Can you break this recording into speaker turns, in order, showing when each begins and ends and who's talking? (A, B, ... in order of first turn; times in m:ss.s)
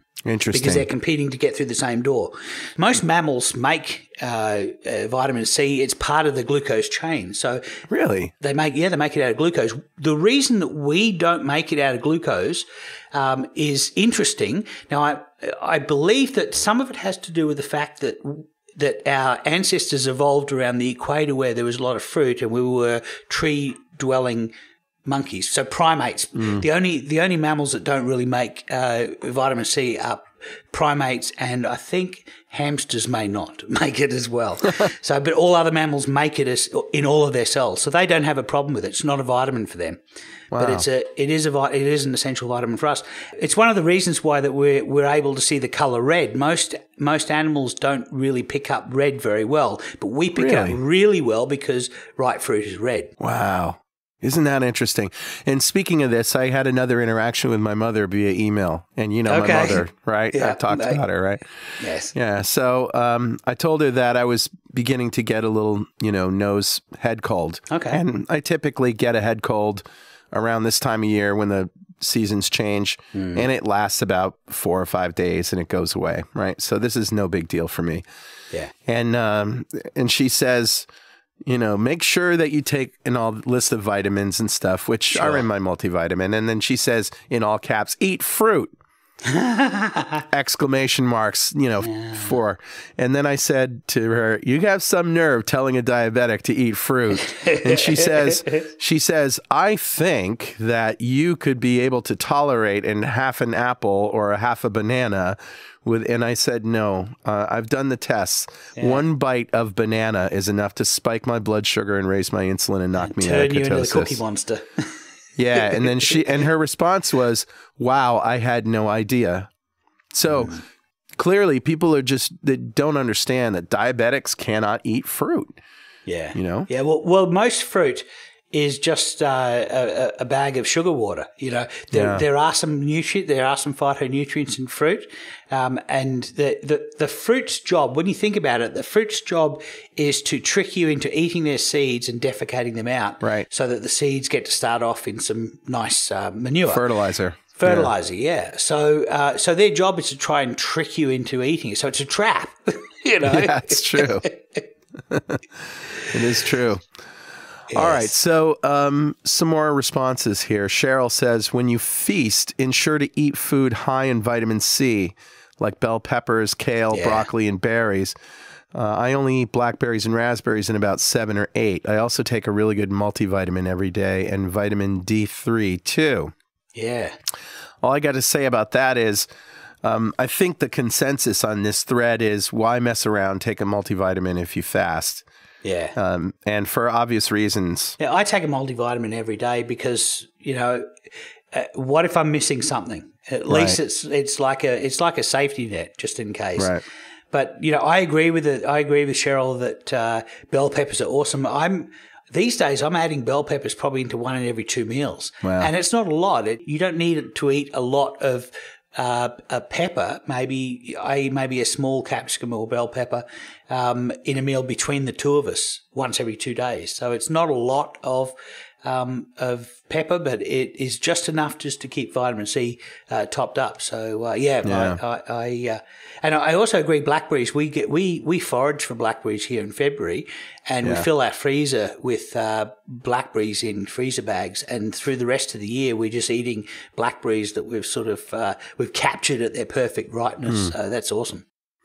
0:00.3-0:00.9 A
0:00.5-0:07.8 B
0:07.9-0:08.3 A
0:08.4-0:24.5 B
0:25.1-0:40.0 B
0:26.4-0:26.6 A
0:40.5-0:40.8 A
0:40.6-0:53.1 B
0:50.4-0:50.8 A
0:53.2-1:18.0 A
0:59.3-1:01.0 B
1:01.8-1:02.1 B
1:07.7-1:08.0 B
1:13.1-1:13.4 B
1:18.8-1:20.9 A
1:21.4-1:28.7 A
1:25.1-1:25.4 B
1:29.2-1:30.2 B
1:30.3-1:54.2 A
1:31.8-1:32.3 B
1:37.2-1:38.6 B
1:48.8-1:49.0 B
1:53.0-1:55.0 B
1:55.4-1:59.5 A
1:55.5-1:56.2 B
2:00.1-2:00.6 A
2:00.4-2:00.6 B
2:01.2-2:05.6 A
2:06.1-2:26.9 B
2:06.3-2:06.7 A
2:11.9-2:12.2 A
2:23.2-2:23.5 A
2:26.7-2:27.9 A
2:27.6-2:34.6 B
2:33.2-2:34.3 A
2:35.1-2:35.4 A
2:36.0-2:36.9 A
2:37.7-2:38.1 B
2:37.7-2:48.1 A
2:46.9-2:47.3 B
2:48.7-2:56.3 A
2:56.7-2:57.2 B
2:57.8-2:59.3 A
2:59.8-3:05.2 A
3:05.6-3:05.9 B
3:05.9-3:08.0 A
3:08.0-3:10.9 B
3:11.5-3:16.8 B
3:13.5-3:13.8 A
3:16.6-3:16.8 A
3:17.3-4:01.4 B
3:25.4-3:25.7 A
3:44.6-3:45.0 A